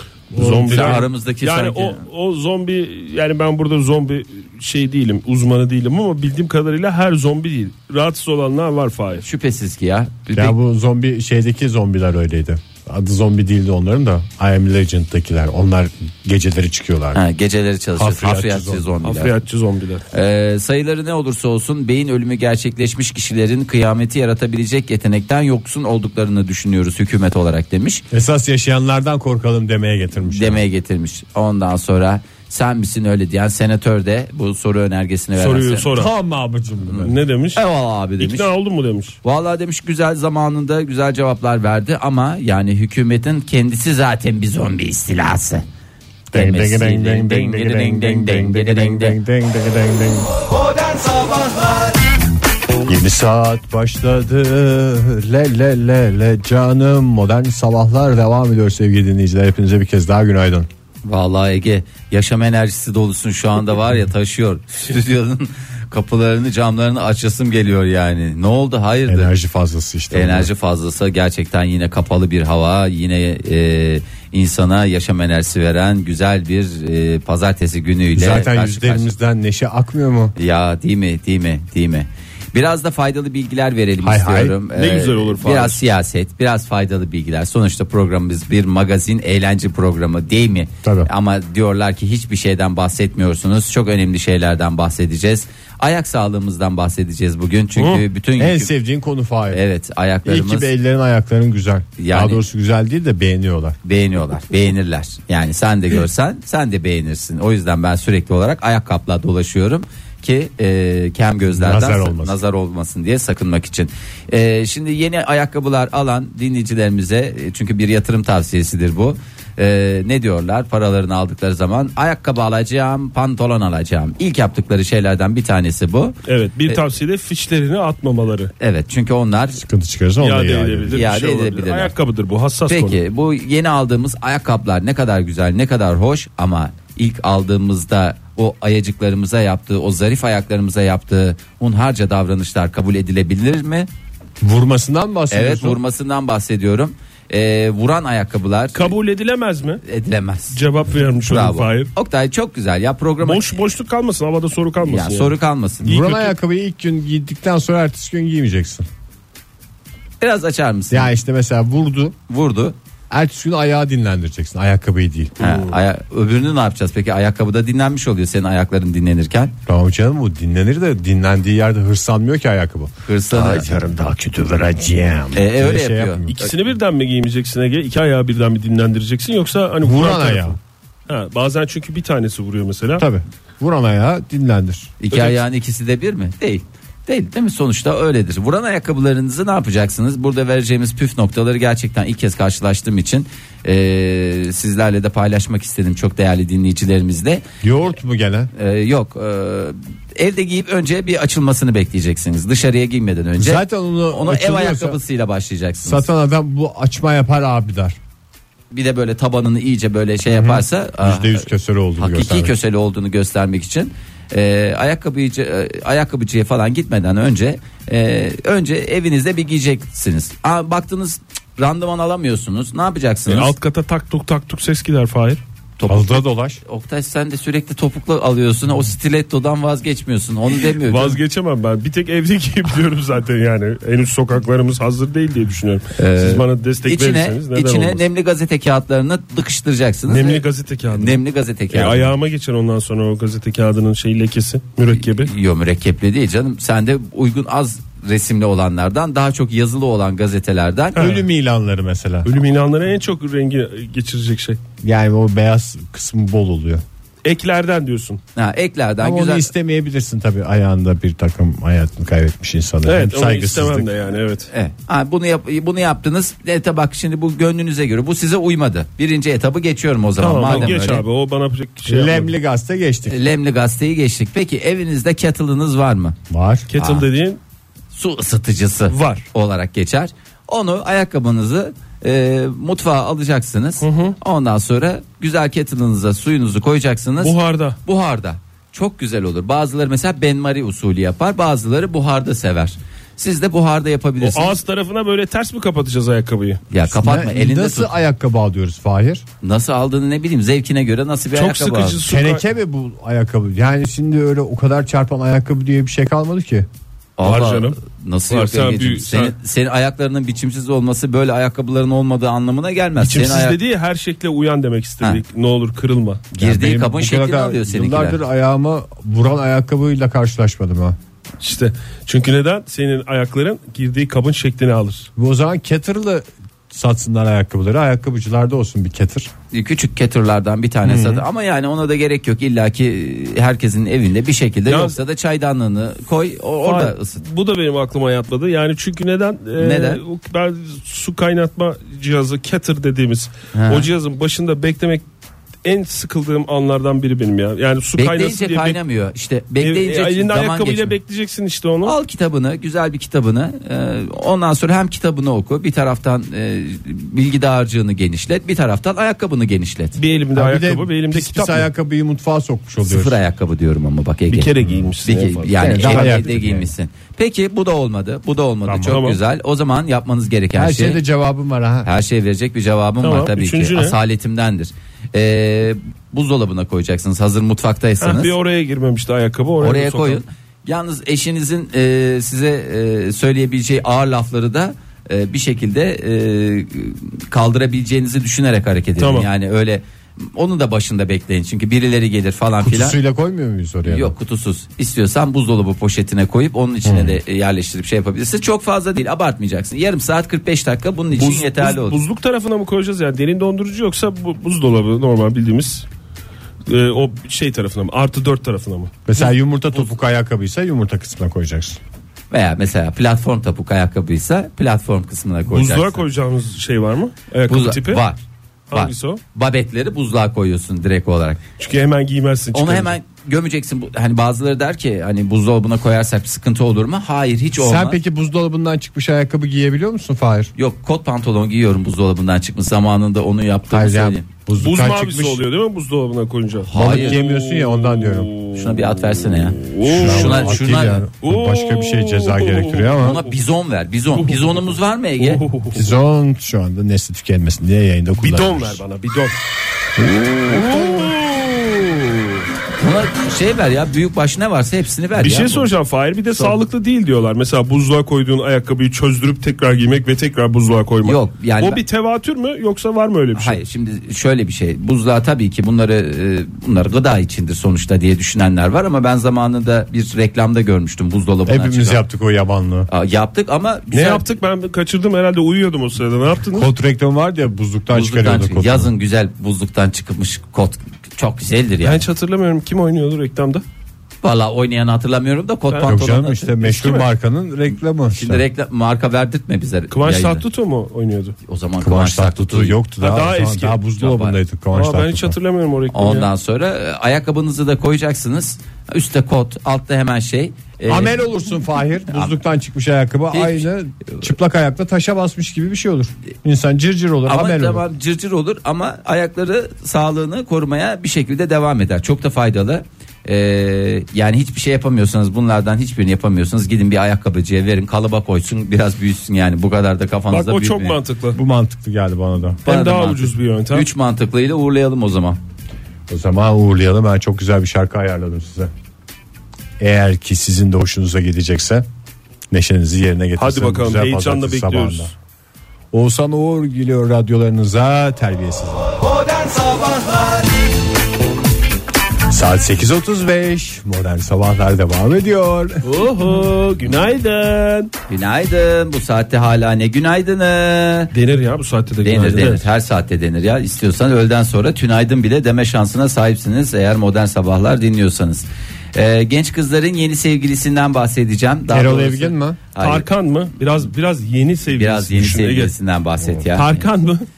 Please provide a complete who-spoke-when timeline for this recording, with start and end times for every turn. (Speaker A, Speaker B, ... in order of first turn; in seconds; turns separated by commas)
Speaker A: 0.3-1.1, Speaker B: 0.3-9.2, Speaker C: 0.6-2.0, Speaker C: 9.2-10.5, Speaker A: 10.3-17.2, Speaker C: 17.1-19.4, Speaker A: 17.9-18.9, Speaker B: 19.0-20.0, Speaker C: 20.1-28.0, Speaker A: 28.1-30.6, Speaker C: 30.2-35.9, Speaker B: 35.4-36.1, Speaker A: 35.9-37.1, Speaker C: 36.9-38.5, Speaker B: 37.0-37.6, Speaker B: 38.2-39.2, Speaker C: 39.2-45.6, Speaker C: 46.3-49.2, Speaker A: 46.3-50.3, Speaker A: 52.8-60.7, Speaker C: 61.0-69.3, Speaker A: 69.1-70.5, Speaker C: 70.1-79.1, Speaker A: 78.1-80.3, Speaker C: 80.4-98.7, Speaker A: 84.0-84.5, Speaker B: 84.7-85.8, Speaker A: 90.8-91.1, Speaker B: 97.8-98.0, Speaker A: 98.4-99.6, Speaker C: 99.5-100.7, Speaker A: 100.2-103.8, Speaker C: 102.0-102.4, Speaker C: 103.8-126.8, Speaker A: 111.6-112.3, Speaker B: 126.2-128.5, Speaker C: 128.6-129.6, Speaker A: 129.6-131.0, Speaker B: 130.2-133.0, Speaker C: 130.9-131.9, Speaker C: 132.7-143.9, Speaker A: 144.4-145.8, Speaker C: 145.3-148.9, Speaker B: 148.7-149.8, Speaker C: 149.8-150.6, Speaker B: 150.5-151.9, Speaker C: 151.2-153.5, Speaker B: 153.2-155.3, Speaker C: 154.8-156.0, Speaker A: 155.8-158.8, Speaker B: 155.9-156.3, Speaker C: 160.2-161.1, Speaker A: 160.9-162.2, Speaker C: 162.3-162.7, Speaker A: 163.1-165.7, Speaker C: 165.4-169.5, Speaker A: 169.7-176.4, Speaker C: 173.1-173.7, Speaker C: 175.3-176.3, Speaker B: 176.3-183.1, Speaker A: 179.8-180.6, Speaker A: 183.0-184.9, Speaker C: 185.0-197.4, Speaker B: 185.1-185.4, Speaker A: 197.6-198.5, Speaker C: 198.5-206.1, Speaker A: 203.4-205.0, Speaker A: 205.8-208.0, Speaker C: 208.7-223.5, Speaker A: 210.2-212.5, Speaker B: 223.3-225.4, Speaker C: 225.8-231.2, Speaker A: 225.9-226.6, Speaker B: 230.6-238.0, Speaker C: 236.0-242.1, Speaker B: 240.1-241.2, Speaker B: 241.7-245.3, Speaker C: 244.9-251.2, Speaker B: 250.9-251.2, Speaker A: 250.9-252.4, Speaker B: 252.2-254.6, Speaker A: 254.8-256.8, Speaker B: 257.2-258.2, Speaker C: 258.4-259.5, Speaker A: 259.0-263.9, Speaker B: 262.8-264.5, Speaker C: 264.5-271.0, Speaker B: 270.2-272.3, Speaker A: 270.5-270.7, Speaker A: 271.9-273.2, Speaker C: 273.1-276.2, Speaker A: 276.3-276.7, Speaker B: 276.7-277.4, Speaker C: 276.8-277.0, Speaker C: 277.9-294.6, Speaker B: 278.9-279.2, Speaker B: 283.8-284.1, Speaker B: 287.2-287.8, Speaker B: 294.2-296.6, Speaker C: 296.7-297.9, Speaker A: 296.8-299.2, Speaker C: 299.4-302.0, Speaker B: 301.3-302.4, Speaker A: 302.1-306.7, Speaker C: 307.2-313.6, Speaker B: 307.2-307.8, Speaker B: 308.3-309.3, Speaker B: 313.0-316.3, Speaker C: 316.3-318.2, Speaker A: 316.4-321.0, Speaker B: 321.4-325.1, Speaker A: 325.2-329.3, Speaker C: 329.5-337.2, Speaker A: 330.8-331.2, Speaker B: 334.7-335.0, Speaker B: 336.6-345.0, Speaker C: 339.6-340.0, Speaker C: 343.5-343.9, Speaker B: 345.6-348.8, Speaker C: 347.9-350.9, Speaker B: 349.6-351.9, Speaker C: 351.8-360.0, Speaker B: 360.0-361.7, Speaker A: 360.3-363.2, Speaker C: 362.8-371.0, Speaker B: 364.3-366.4, Speaker A: 365.5-366.7, Speaker A: 368.6-369.0, Speaker B: 368.9-369.2, Speaker A: 370.5-371.9, Speaker C: 371.8-378.3, Speaker B: 373.0-373.9, Speaker B: 378.0-380.2, Speaker C: 379.6-393.0, Speaker B: 389.0-389.3, Speaker A: 392.6-394.1, Speaker C: 393.9-402.0, Speaker A: 396.8-397.2, Speaker B: 401.1-405.9, Speaker B: 406.7-409.1, Speaker A: 409.1-411.8, Speaker C: 412.3-416.0, Speaker B: 415.5-418.0, Speaker C: 417.5-418.2, Speaker B: 418.7-419.2, Speaker C: 418.7-421.4, Speaker B: 421.6-422.9, Speaker C: 422.5-428.0, Speaker A: 427.6-430.5, Speaker C: 430.6-434.2, Speaker A: 433.7-435.4, Speaker B: 434.6-443.2, Speaker C: 436.6-437.2, Speaker A: 436.7-438.3, Speaker C: 438.5-441.1, Speaker A: 439.9-443.2, Speaker C: 443.0-445.4, Speaker B: 444.2-444.6, Speaker B: 445.2-445.9, Speaker A: 445.7-448.8, Speaker B: 448.1-449.4, Speaker A: 450.0-451.1, Speaker B: 450.4-452.2, Speaker C: 452.8-455.7, Speaker B: 455.2-463.6, Speaker C: 461.0-461.8, Speaker C: 463.3-472.0, Speaker A: 471.5-472.9, Speaker C: 472.9-474.2, Speaker B: 473.9-476.7, Speaker A: 476.5-478.9, Speaker C: 477.9-482.0, Speaker B: 481.8-483.6, Speaker C: 484.2-486.9, Speaker B: 485.7-486.0, Speaker A: 485.8-488.4, Speaker B: 486.6-487.1, Speaker C: 488.1-490.4, Speaker B: 489.9-491.4, Speaker C: 491.4-492.8, Speaker A: 491.8-495.3, Speaker B: 493.0-493.8, Speaker C: 494.0-494.4, Speaker B: 494.7-496.3, Speaker C: 495.9-501.2, Speaker A: 500.9-507.8, Speaker C: 503.3-504.2, Speaker C: 507.2-521.0, Speaker B: 520.3-521.4, Speaker A: 521.3-522.6, Speaker B: 522.6-523.9, Speaker C: 522.6-525.4, Speaker A: 526.1-528.7, Speaker A: 529.8-531.8, Speaker A: 532.5-535.1, Speaker B: 533.4-535.1, Speaker A: 535.9-539.0, Speaker C: 539.3-540.4, Speaker A: 542.3-545.8, Speaker B: 545.8-547.9, Speaker C: 548.1-551.1, Speaker B: 551.1-552.6, Speaker C: 552.0-563.0, Speaker A: 561.7-562.6, Speaker B: 562.8-565.7, Speaker C: 564.7-566.8, Speaker B: 566.4-567.2